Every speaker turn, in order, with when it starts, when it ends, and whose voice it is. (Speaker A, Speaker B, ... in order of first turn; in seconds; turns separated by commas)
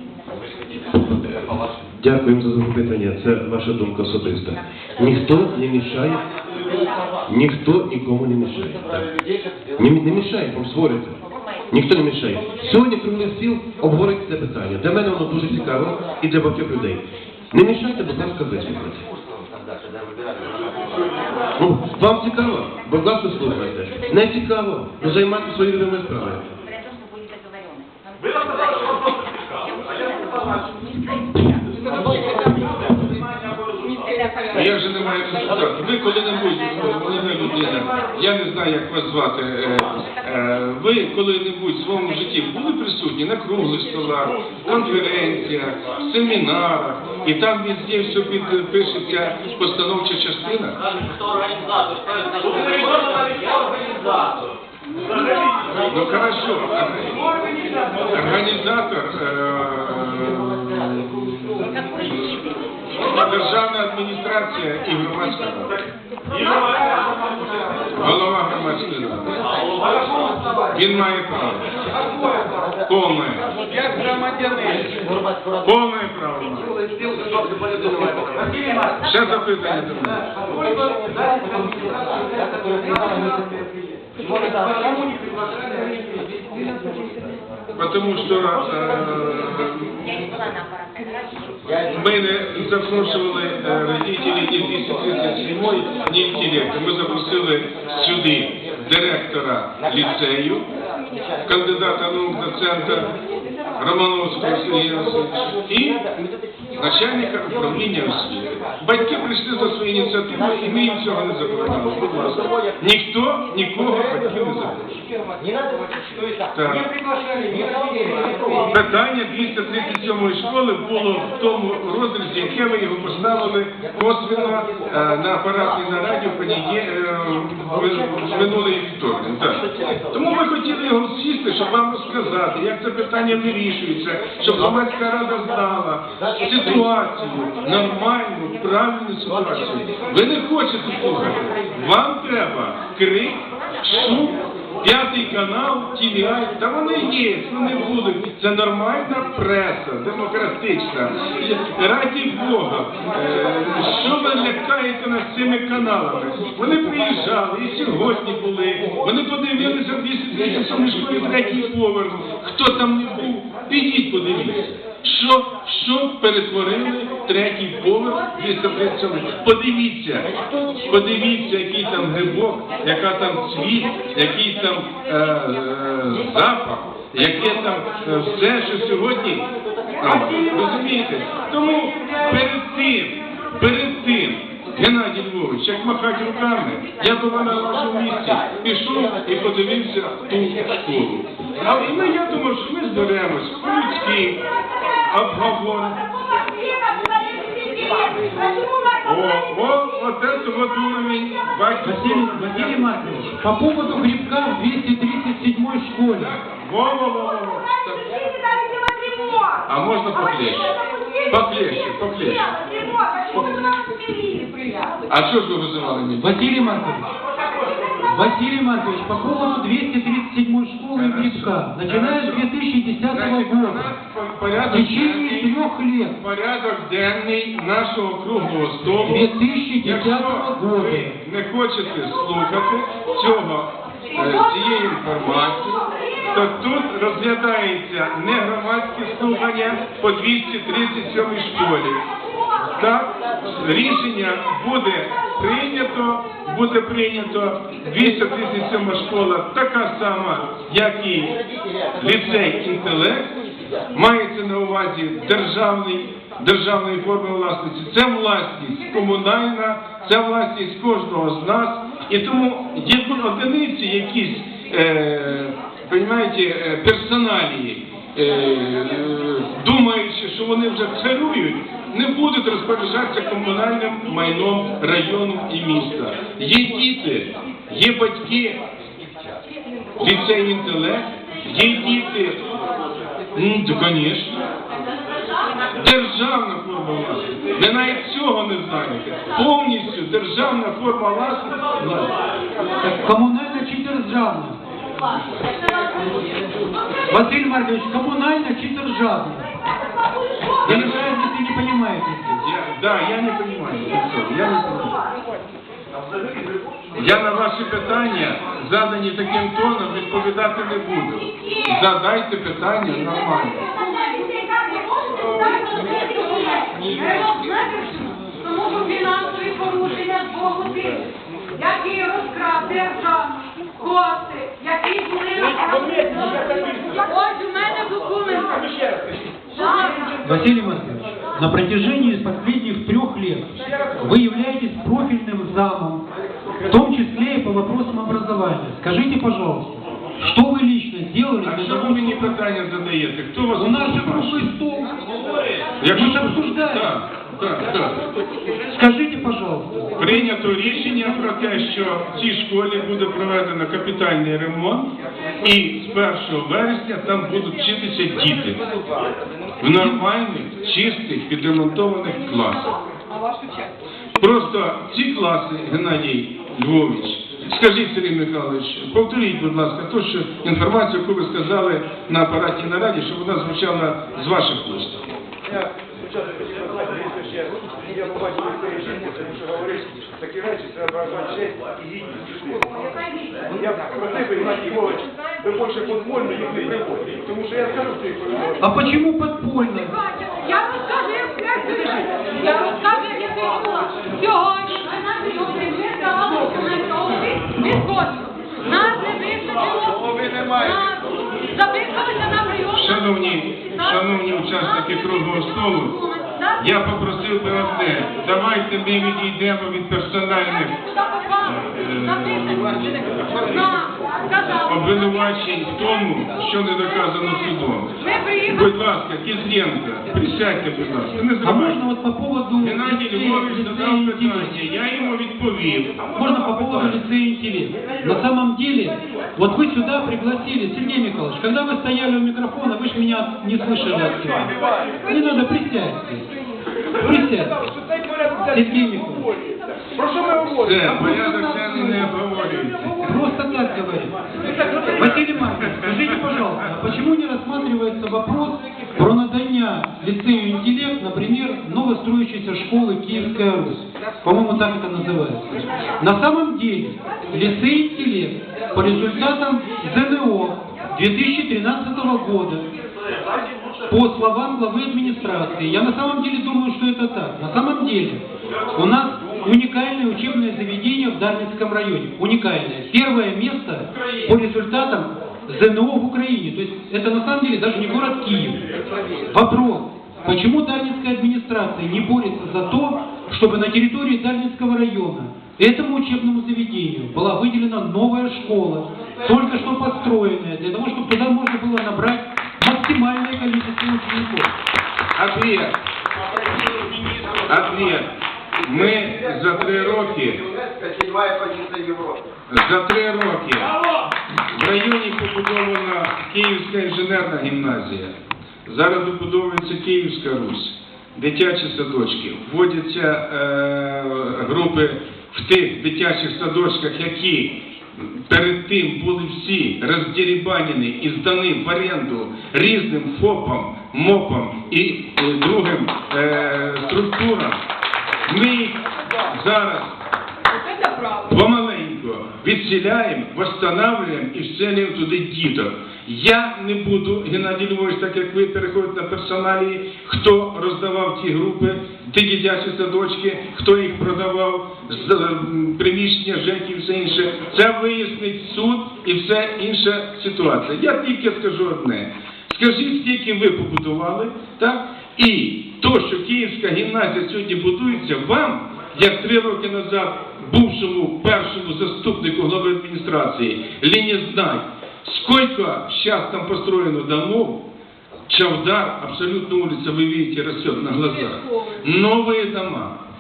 Speaker A: 0.5-6.2, Speaker A: 7.3-9.2, Speaker A: 9.8-19.1, Speaker A: 21.6-26.5, Speaker B: 28.3-34.4, Speaker C: 34.5-50.8, Speaker B: 51.4-54.4, Speaker C: 55.9-57.2, Speaker C: 58.1-62.4, Speaker C: 63.0-65.7, Speaker B: 66.3-67.8, Speaker C: 68.0-69.4, Speaker B: 69.6-70.4, Speaker C: 70.7-71.7, Speaker C: 72.9-73.5, Speaker C: 75.6-76.7, Speaker D: 78.3-78.9, Speaker C: 79.0-80.3, Speaker D: 80.5-83.7, Speaker C: 87.8-90.2, Speaker C: 91.8-100.7, Speaker C: 101.5-103.1, Speaker C: 103.8-106.1, Speaker C: 106.7-115.0, Speaker C: 116.5-116.9, Speaker C: 118.7-170.3, Speaker C: 170.9-179.5, Speaker C: 180.0-194.4, Speaker D: 180.1-180.8, Speaker D: 182.0-182.4, Speaker C: 195.0-196.0, Speaker E: 196.4-199.0, Speaker C: 199.0-203.3, Speaker D: 201.8-206.4, Speaker C: 206.1-208.1, Speaker C: 209.7-210.8, Speaker C: 211.3-212.5, Speaker E: 212.9-213.8, Speaker E: 214.4-214.9, Speaker C: 215.1-216.5, Speaker D: 216.2-217.1, Speaker D: 218.0-223.9, Speaker C: 220.9-222.5, Speaker C: 223.1-225.7, Speaker D: 224.7-226.2, Speaker C: 226.2-229.3, Speaker D: 229.0-231.2, Speaker C: 229.8-242.0, Speaker C: 242.7-251.4, Speaker C: 252.0-253.3, Speaker C: 253.9-278.6, Speaker C: 280.0-282.4, Speaker C: 283.4-284.4, Speaker C: 285.8-292.1, Speaker D: 292.8-294.6, Speaker D: 297.1-299.5, Speaker D: 300.6-302.5, Speaker C: 300.6-301.1, Speaker C: 302.4-305.0, Speaker C: 307.0-313.7, Speaker E: 313.7-328.9, Speaker E: 329.5-330.1, Speaker D: 330.1-336.0, Speaker D: 336.6-342.3, Speaker C: 341.4-344.5, Speaker D: 343.6-344.9, Speaker C: 345.8-348.1, Speaker D: 345.9-347.0, Speaker D: 348.7-351.2, Speaker C: 350.0-354.9, Speaker C: 355.4-358.6, Speaker C: 359.6-362.7, Speaker C: 364.2-375.0, Speaker F: 377.2-377.4, Speaker F: 378.1-382.1, Speaker F: 383.7-387.8, Speaker D: 388.6-390.0, Speaker E: 390.0-402.8, Speaker C: 402.7-406.0, Speaker E: 406.1-406.5, Speaker C: 406.6-410.8, Speaker E: 410.9-411.6, Speaker C: 411.5-413.7, Speaker E: 413.6-414.6, Speaker C: 414.6-421.8, Speaker E: 418.0-418.4, Speaker D: 421.4-424.6, Speaker C: 422.6-427.0, Speaker D: 426.1-434.5, Speaker D: 435.1-436.3, Speaker D: 437.0-437.6, Speaker D: 438.4-439.3, Speaker C: 440.1-442.9, Speaker D: 440.8-442.2, Speaker D: 443.0-444.1, Speaker D: 444.9-462.7, Speaker D: 463.9-468.2, Speaker D: 468.8-478.6, Speaker D: 479.3-494.5, Speaker C: 495.1-495.8, Speaker C: 497.4-500.5, Speaker C: 502.5-503.7, Speaker C: 504.5-508.1, Speaker C: 508.6-527.6, Speaker C: 528.3-530.0, Speaker C: 531.2-567.7, Speaker C: 568.3-573.0